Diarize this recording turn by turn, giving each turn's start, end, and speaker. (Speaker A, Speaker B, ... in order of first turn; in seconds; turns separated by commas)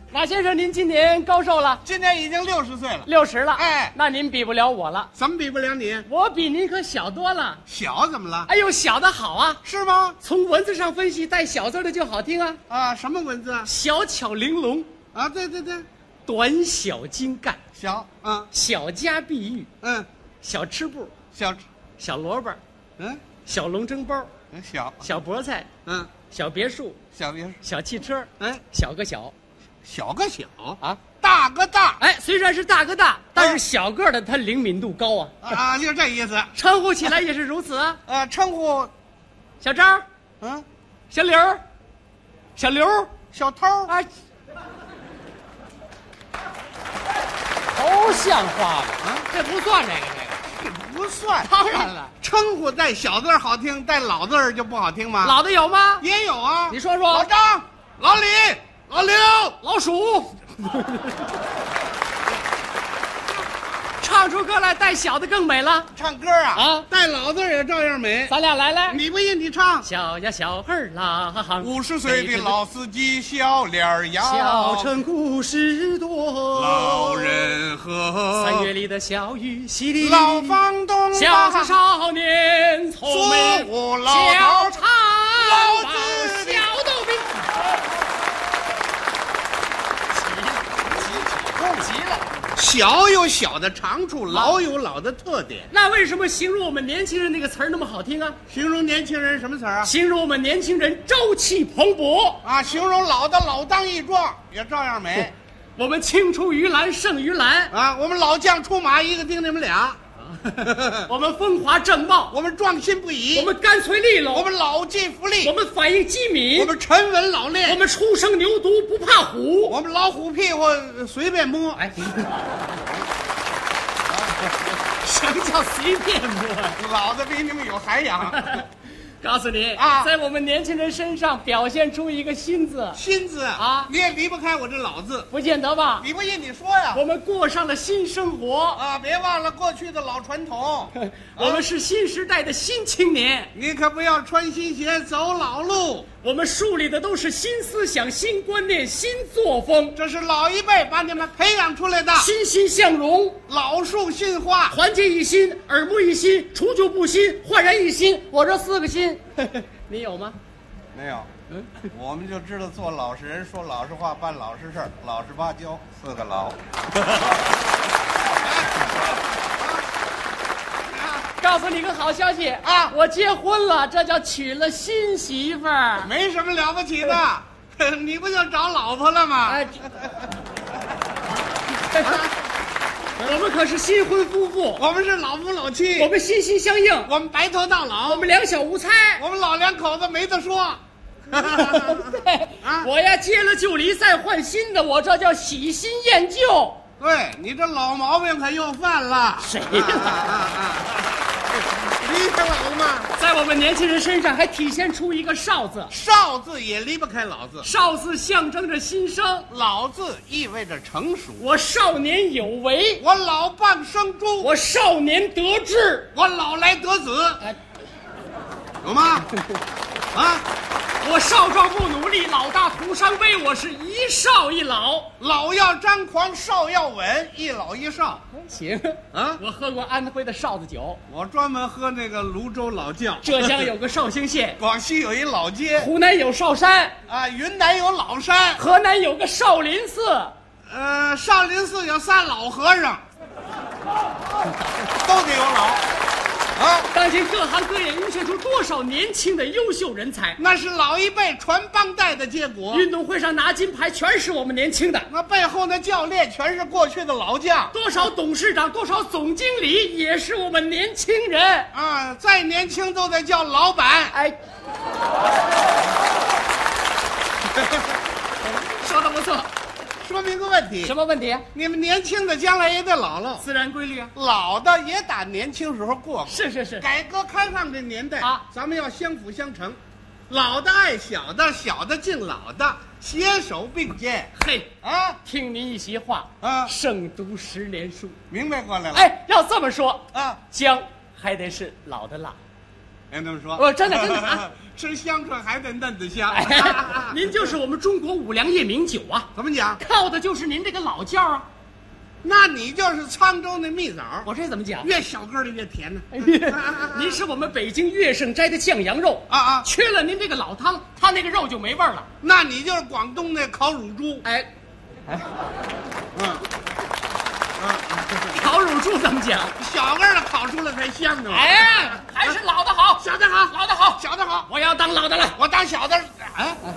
Speaker A: 0.1-1.8, Speaker B: 1.8-4.0, Speaker A: 3.0-5.1, Speaker B: 5.2-6.1, Speaker A: 6.1-7.6, Speaker B: 7.7-8.5, Speaker A: 8.5-9.6, Speaker B: 9.6-10.2, Speaker A: 10.2-12.6, Speaker B: 12.7-13.7, Speaker A: 13.7-14.9, Speaker B: 15.1-15.9, Speaker A: 16.2-17.6, Speaker B: 17.8-18.5, Speaker A: 18.5-19.7, Speaker B: 19.8-20.1, Speaker A: 20.4-21.1, Speaker B: 21.3-21.6, Speaker A: 22.0-22.6, Speaker B: 23.0-23.2, Speaker A: 23.4-24.3, Speaker B: 24.5-25.1, Speaker A: 25.0-25.7, Speaker B: 25.9-26.1, Speaker A: 26.3-27.0, Speaker B: 27.1-27.6, Speaker A: 27.6-29.3, Speaker B: 29.8-32.0, Speaker A: 32.0-35.5, Speaker B: 33.4-33.6, Speaker B: 35.4-36.5, Speaker A: 36.5-38.0, Speaker B: 38.1-38.9, Speaker A: 39.6-40.0, Speaker B: 40.4-40.7, Speaker A: 41.1-41.6, Speaker A: 42.6-43.2, Speaker B: 43.3-43.9, Speaker A: 47.7-50.5, Speaker B: 49.0-49.3, Speaker B: 50.5-55.4, Speaker A: 51.4-52.1, Speaker A: 55.2-56.1, Speaker B: 56.0-59.6, Speaker A: 56.7-57.3, Speaker A: 59.6-61.3, Speaker A: 64.0-65.9, Speaker B: 65.9-68.3, Speaker A: 66.5-66.9, Speaker A: 68.3-69.0, Speaker B: 68.9-69.9, Speaker A: 69.8-72.6, Speaker B: 71.6-75.0, Speaker A: 74.2-77.5, Speaker B: 76.5-78.7, Speaker A: 78.3-80.6, Speaker B: 80.0-81.8, Speaker A: 81.1-87.6, Speaker B: 83.0-84.8, Speaker B: 85.3-86.7, Speaker A: 90.1-92.3, Speaker B: 90.9-91.9, Speaker B: 92.5-95.7, Speaker A: 94.3-94.6, Speaker A: 95.7-98.4, Speaker B: 98.5-99.9, Speaker A: 99.8-102.4, Speaker B: 102.4-105.3, Speaker A: 105.8-107.7, Speaker B: 107.7-111.1, Speaker A: 111.0-112.4, Speaker B: 112.3-113.5, Speaker A: 113.3-114.5, Speaker B: 114.3-115.5, Speaker A: 115.4-116.8, Speaker B: 116.6-117.8, Speaker A: 117.7-119.8, Speaker B: 119.7-122.3, Speaker A: 122.0-122.4, Speaker A: 124.9-126.8, Speaker B: 126.8-128.6, Speaker A: 128.3-128.7, Speaker A: 129.2-133.0, Speaker B: 129.8-130.1, Speaker B: 132.9-135.3, Speaker A: 133.6-133.9, Speaker A: 135.3-136.1, Speaker B: 136.0-137.0, Speaker A: 136.9-138.8, Speaker B: 138.8-141.7, Speaker A: 140.9-143.5, Speaker B: 143.5-146.1, Speaker A: 146.2-150.0, Speaker B: 149.9-152.3, Speaker A: 152.2-153.4, Speaker B: 153.5-154.8, Speaker A: 154.7-160.4, Speaker B: 160.9-161.3, Speaker A: 161.5-161.8, Speaker B: 161.8-166.6, Speaker B: 168.4-169.9, Speaker B: 171.0-171.2, Speaker A: 171.3-176.1, Speaker B: 172.6-172.9, Speaker B: 176.0-179.8, Speaker A: 179.5-179.8, Speaker A: 181.8-182.3, Speaker B: 182.0-182.3, Speaker A: 183.2-184.8, Speaker B: 184.8-186.1, Speaker A: 186.0-187.1, Speaker B: 187.0-188.3, Speaker A: 188.1-189.3, Speaker B: 189.2-192.9, Speaker A: 191.3-196.8, Speaker B: 197.0-201.2, Speaker A: 199.4-200.4, Speaker B: 201.8-203.1, Speaker A: 203.1-205.9, Speaker B: 205.9-207.7, Speaker A: 207.6-209.5, Speaker B: 209.5-211.4, Speaker A: 211.4-213.0, Speaker B: 213.0-214.5, Speaker A: 214.4-216.1, Speaker B: 216.1-217.4, Speaker B: 218.8-219.3, Speaker B: 220.1-220.5, Speaker A: 221.0-225.1, Speaker B: 225.2-228.2, Speaker A: 228.3-231.0, Speaker B: 229.1-229.4, Speaker B: 231.1-233.7, Speaker A: 233.2-234.6, Speaker B: 234.6-235.9, Speaker A: 235.7-237.0, Speaker B: 237.1-238.6, Speaker A: 238.6-240.3, Speaker B: 240.7-243.0, Speaker B: 244.9-245.8, Speaker B: 246.6-246.9, Speaker A: 246.9-250.4, Speaker B: 250.4-252.9, Speaker A: 252.7-255.1, Speaker B: 255.1-257.7, Speaker A: 257.7-261.7, Speaker B: 261.7-264.1, Speaker A: 264.1-264.4, Speaker A: 268.4-269.5, Speaker B: 270.0-270.9, Speaker A: 270.8-271.5, Speaker B: 271.5-273.4, Speaker A: 273.4-274.1, Speaker B: 274.1-279.8, Speaker A: 276.3-276.9, Speaker A: 278.2-278.4, Speaker B: 280.3-284.3, Speaker A: 284.4-288.2, Speaker B: 284.8-285.2, Speaker B: 286.4-286.7, Speaker B: 288.3-289.1, Speaker A: 288.9-292.4, Speaker B: 290.1-290.4, Speaker B: 293.1-297.3, Speaker A: 293.6-294.4, Speaker A: 296.3-301.5, Speaker B: 299.4-299.8, Speaker B: 302.2-304.3, Speaker A: 304.2-304.9, Speaker B: 304.8-307.2, Speaker A: 306.1-312.1, Speaker B: 309.3-309.7, Speaker B: 312.2-314.2, Speaker A: 314.2-314.5, Speaker B: 316.1-316.4, Speaker B: 317.6-318.5, Speaker A: 318.3-319.6, Speaker B: 319.6-322.4, Speaker A: 321.3-323.1, Speaker B: 323.0-324.5, Speaker A: 324.5-325.4, Speaker B: 325.4-326.6